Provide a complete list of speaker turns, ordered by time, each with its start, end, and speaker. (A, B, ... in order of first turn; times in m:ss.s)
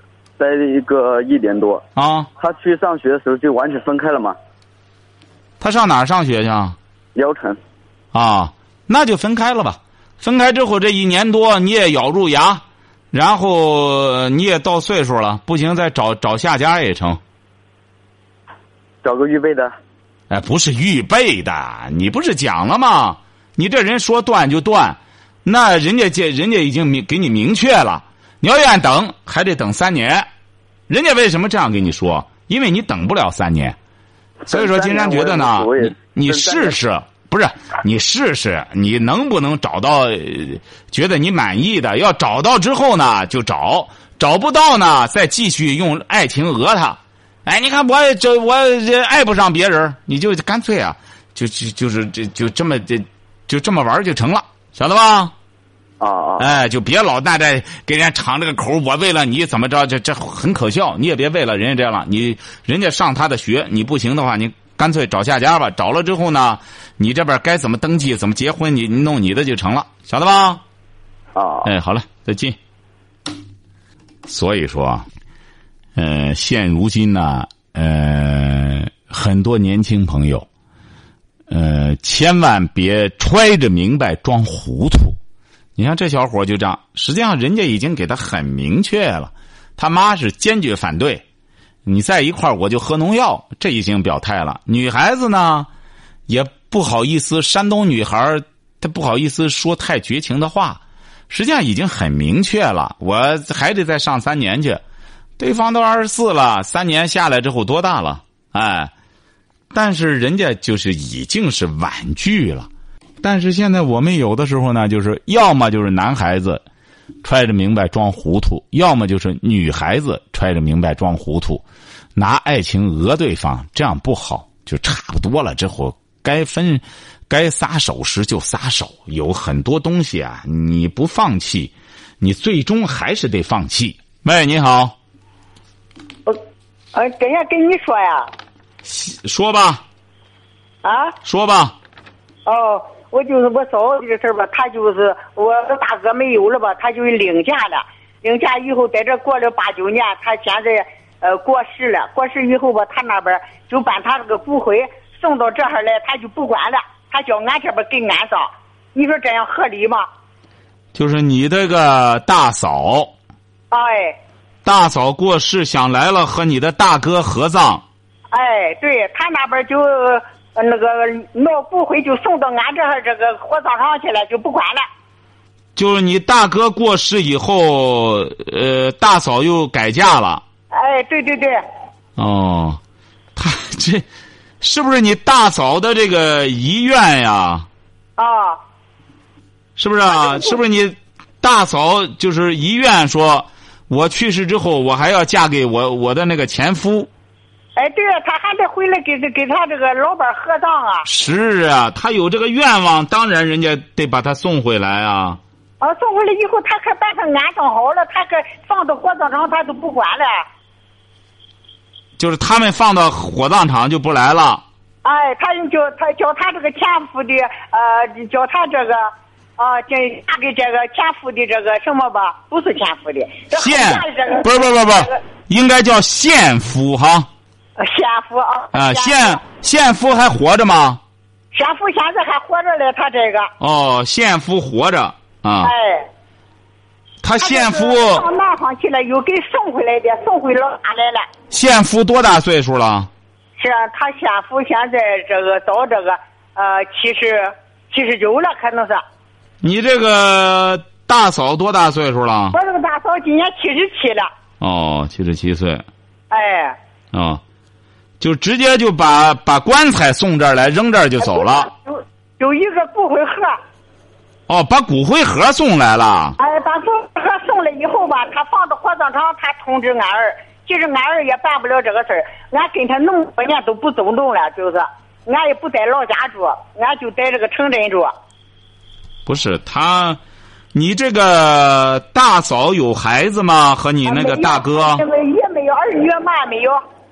0:00.4-0:01.8 A
0:02.0-0:02.3 B
0:02.4-0:04.4 A
0:05.6-0:06.8 B
0:07.1-0:07.6 A
0:08.1-0:17.2 B
0:19.0-0:19.7 A
0:20.3-0:30.3 B
0:30.9-0:33.8 B
0:34.4-0:36.8 A
0:34.5-0:55.3 B
0:56.0-0:56.4 A
0:56.4-1:10.6 B
1:11.3-1:11.7 A
1:11.6-1:12.6 B
1:14.2-1:15.1 B
1:16.0-1:20.5 B
1:21.5-1:25.2 B
1:25.8-1:31.2 B
1:31.8-1:35.7 B
1:36.3-1:44.8 B
1:45.4-1:48.9 B
1:49.7-1:52.7 B
1:53.2-1:56.6 B
1:57.2-2:01.6 B
2:02.2-2:15.0 B
2:16.9-2:18.3 C
2:18.8-2:19.8 B
2:20.8-2:21.2 C
2:21.2-2:21.8 B
2:22.4-2:40.0 C
2:40.9-2:43.1 B
2:43.7-2:44.2 C
2:44.6-2:47.8 B
2:48.3-2:54.8 C
2:55.8-3:00.4 B
3:00.7-3:01.6 C
3:02.2-3:02.8 B
3:03.4-3:04.0 B
3:04.6-3:07.7 B
3:08.2-3:08.6 C
3:09.8-3:17.1 B
3:10.2-3:10.6 C
3:17.8-3:21.1 C
3:21.0-3:25.4 B
3:25.8-3:30.4 C
3:32.2-3:34.6 B
3:35.0-3:45.1 C
3:43.5-3:47.3 B
3:47.8-3:49.4 C
3:48.7-3:51.0 B
3:51.5-3:53.5 C
3:53.6-3:55.7 B
3:55.6-3:56.1 C
3:57.2-3:58.2 B
3:57.4-4:01.3 C
4:01.5-4:03.1 B
4:03.6-4:09.0 C
4:09.6-4:12.6 B
4:12.5-4:14.3 C
4:14.6-4:15.8 B
4:16.3-4:16.8 C
4:17.1-4:17.4 B
4:18.2-4:21.7 B
4:21.2-4:23.6 C
4:24.5-4:26.4 B
4:26.4-4:38.1 C
4:39.2-4:40.2 B
4:40.7-4:45.0 B
4:44.0-4:46.8 C